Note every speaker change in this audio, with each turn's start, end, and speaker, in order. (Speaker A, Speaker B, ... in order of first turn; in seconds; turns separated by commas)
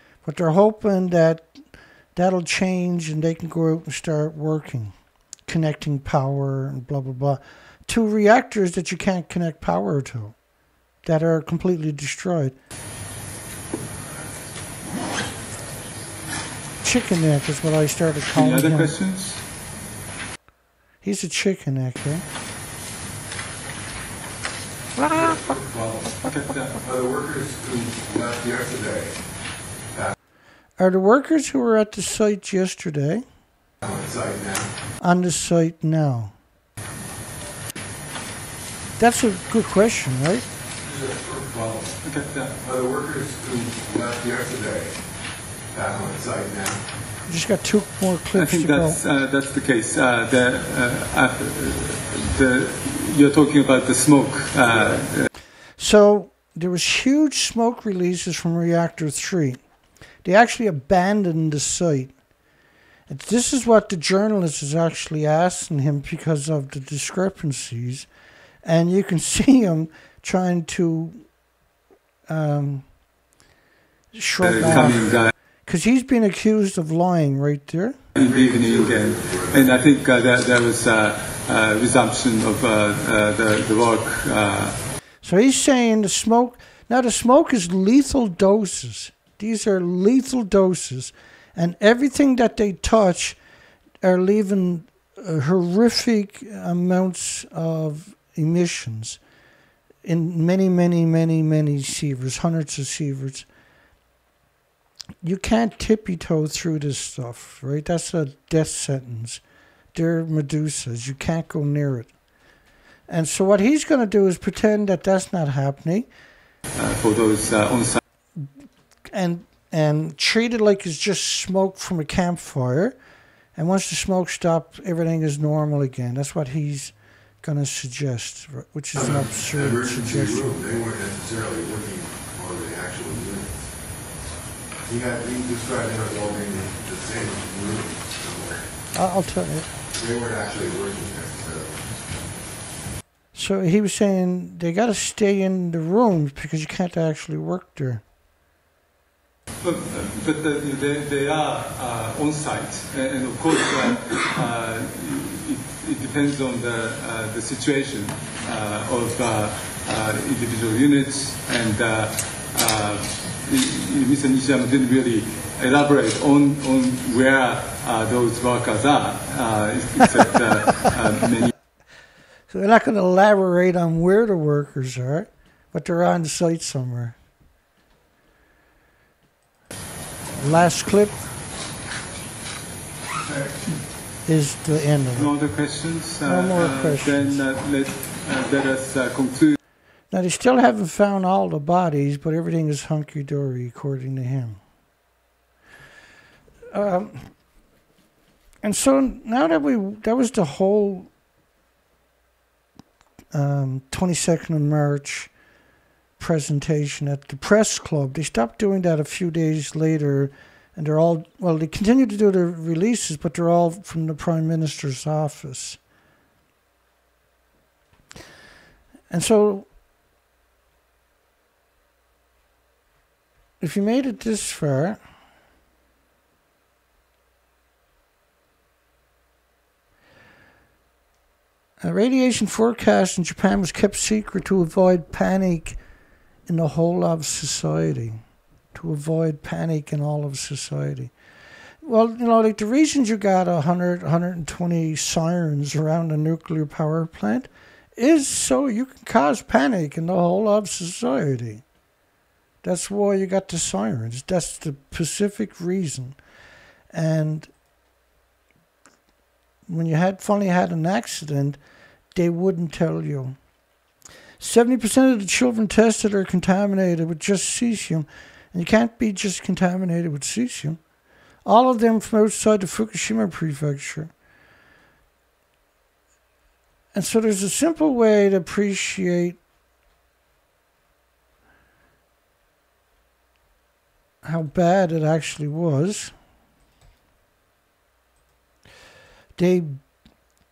Speaker A: 0.2-1.6, Speaker A: 2.1-4.9, Speaker A: 5.5-10.4, Speaker A: 11.1-12.6, Speaker A: 16.8-19.0, Speaker B: 18.3-19.4, Speaker A: 21.0-22.2, Speaker C: 25.0-26.3, Speaker B: 26.2-26.8, Speaker C: 26.8-29.2, Speaker A: 30.8-33.2, Speaker C: 33.8-34.7, Speaker A: 35.0-36.3, Speaker A: 39.0-40.5, Speaker C: 40.9-42.0, Speaker B: 42.0-42.5, Speaker C: 42.6-45.0, Speaker C: 45.7-46.8, Speaker A: 47.3-49.0, Speaker B: 48.3-55.3, Speaker C: 54.7-55.0, Speaker A: 55.8-59.6, Speaker A: 60.2-62.1, Speaker A: 63.1-68.1, Speaker A: 68.6-71.3, Speaker A: 72.3-72.9, Speaker A: 74.2-78.0, Speaker B: 74.4-75.3, Speaker C: 74.6-75.1, Speaker C: 78.2-80.1, Speaker B: 78.2-84.8, Speaker A: 85.2-93.4, Speaker A: 94.0-99.2, Speaker A: 100.0-103.5, Speaker A: 105.2-109.4, Speaker A: 109.9-112.1, Speaker A: 113.1-116.1, Speaker B: 116.8-118.0, Speaker A: 119.1-123.0, Speaker A: 123.6-130.6, Speaker C: 128.9-133.6, Speaker C: 134.9-138.7, Speaker A: 138.9-139.7, Speaker C: 139.9-141.8, Speaker A: 143.3-148.0, Speaker B: 149.6-171.5, Speaker A: 172.5-177.2, Speaker A: 180.4-181.2, Speaker A: 184.3-185.3, Speaker B: 185.2-189.6, Speaker A: 186.2-187.4, Speaker A: 190.1-194.6, Speaker A: 196.7-197.3, Speaker A: 198.6-201.1, Speaker A: 203.3-205.3, Speaker A: 206.2-215.8, Speaker A: 219.1-219.7, Speaker A: 223.6-225.0, Speaker A: 231.8-235.8, Speaker A: 236.5-238.2, Speaker A: 238.7-241.1, Speaker A: 241.8-251.6, Speaker A: 252.6-256.2, Speaker A: 256.9-257.5, Speaker A: 259.7-261.6, Speaker A: 262.1-263.4, Speaker A: 264.4-270.8, Speaker A: 271.4-274.1, Speaker A: 276.9-279.4, Speaker A: 284.2-286.1, Speaker A: 289.4-289.8